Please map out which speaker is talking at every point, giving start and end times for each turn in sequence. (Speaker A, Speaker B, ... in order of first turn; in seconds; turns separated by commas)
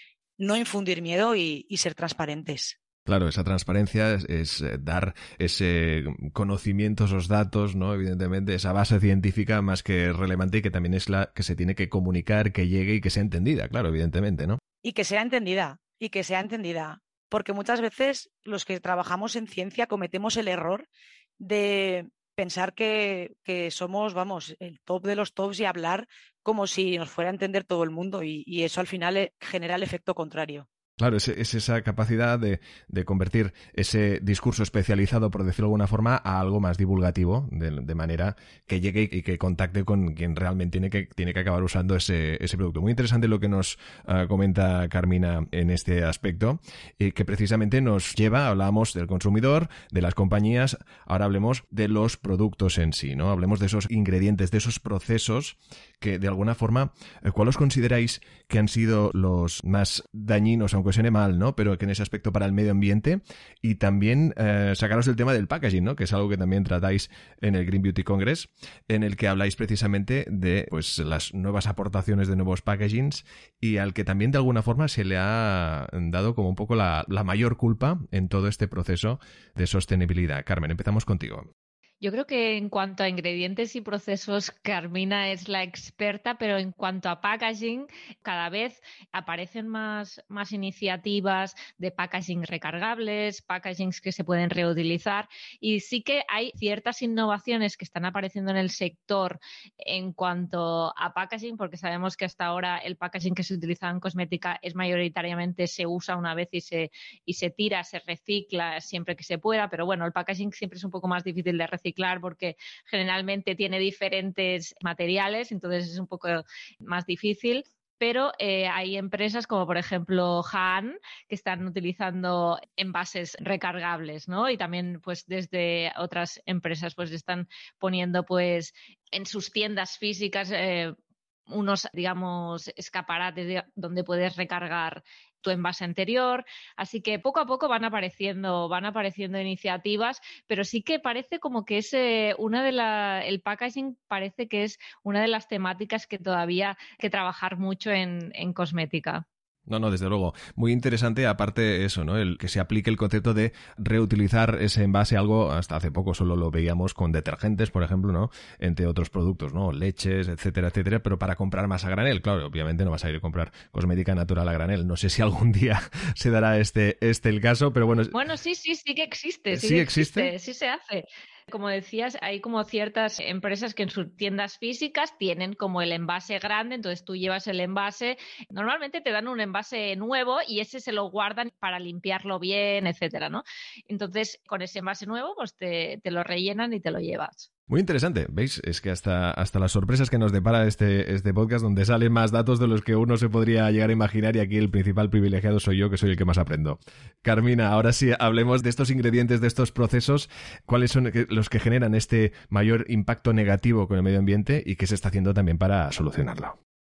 Speaker A: 0.4-2.8, Speaker B: 3.1-14.6, Speaker A: 14.8-20.9, Speaker A: 21.4-30.7, Speaker B: 31.0-81.5, Speaker C: 82.0-130.9, Speaker C: 131.5-149.2, Speaker B: 149.7-168.2, Speaker C: 168.1-187.5, Speaker B: 169.5-170.3, Speaker B: 187.7-206.6